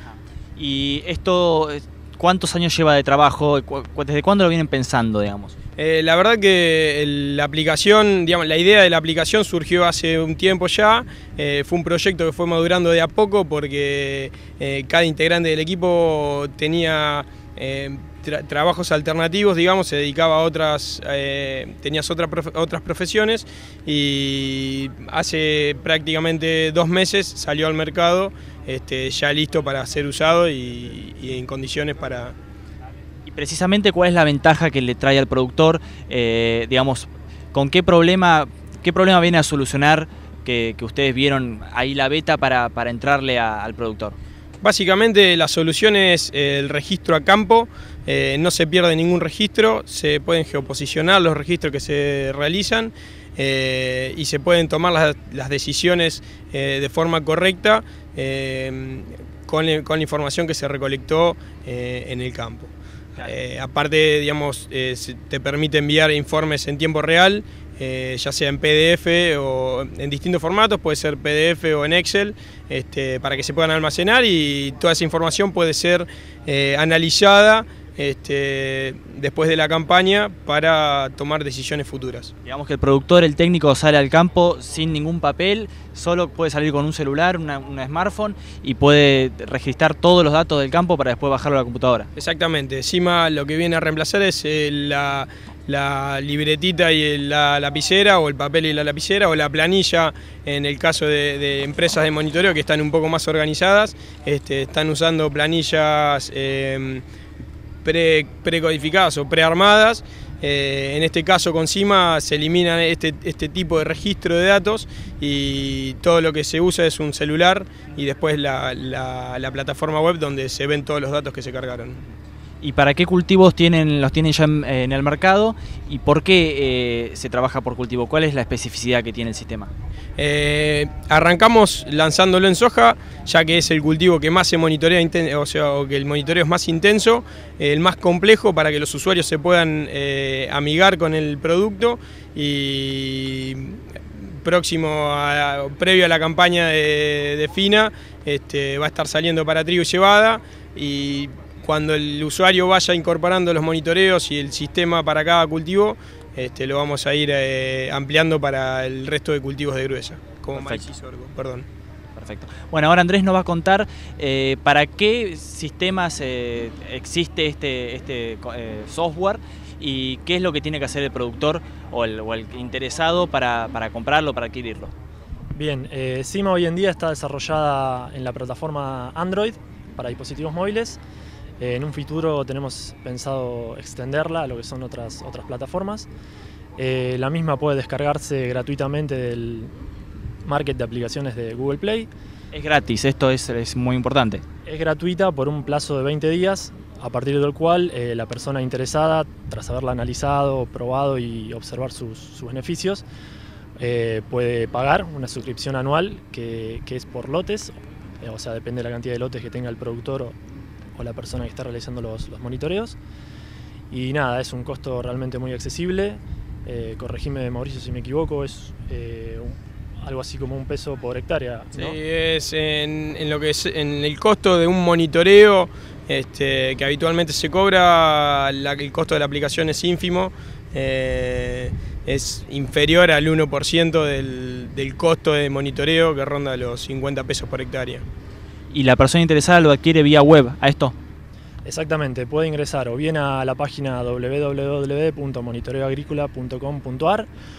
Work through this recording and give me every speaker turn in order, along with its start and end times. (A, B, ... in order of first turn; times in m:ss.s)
0:00.1-0:05.5 A
0:05.8-0:32.3 B
0:33.2-0:44.1 A
0:44.6-1:22.3 B
1:22.4-1:32.1 A
1:32.1-1:47.0 B
1:47.8-2:02.0 B
2:02.6-2:09.7 A
2:10.2-2:41.6 B
2:40.5-2:40.8 A
2:42.2-2:54.9 A
2:55.5-3:01.0 C
3:01.6-3:06.1 C
3:06.8-3:09.7 C
3:10.4-3:12.1 C
3:12.5-3:14.4 A
3:14.6-3:23.0 C
3:23.8-3:30.4 C
3:30.9-3:33.0 C
3:33.9-3:42.0 C
3:41.7-3:58.0 B
3:58.7-4:00.9 A
4:01.6-4:07.3 C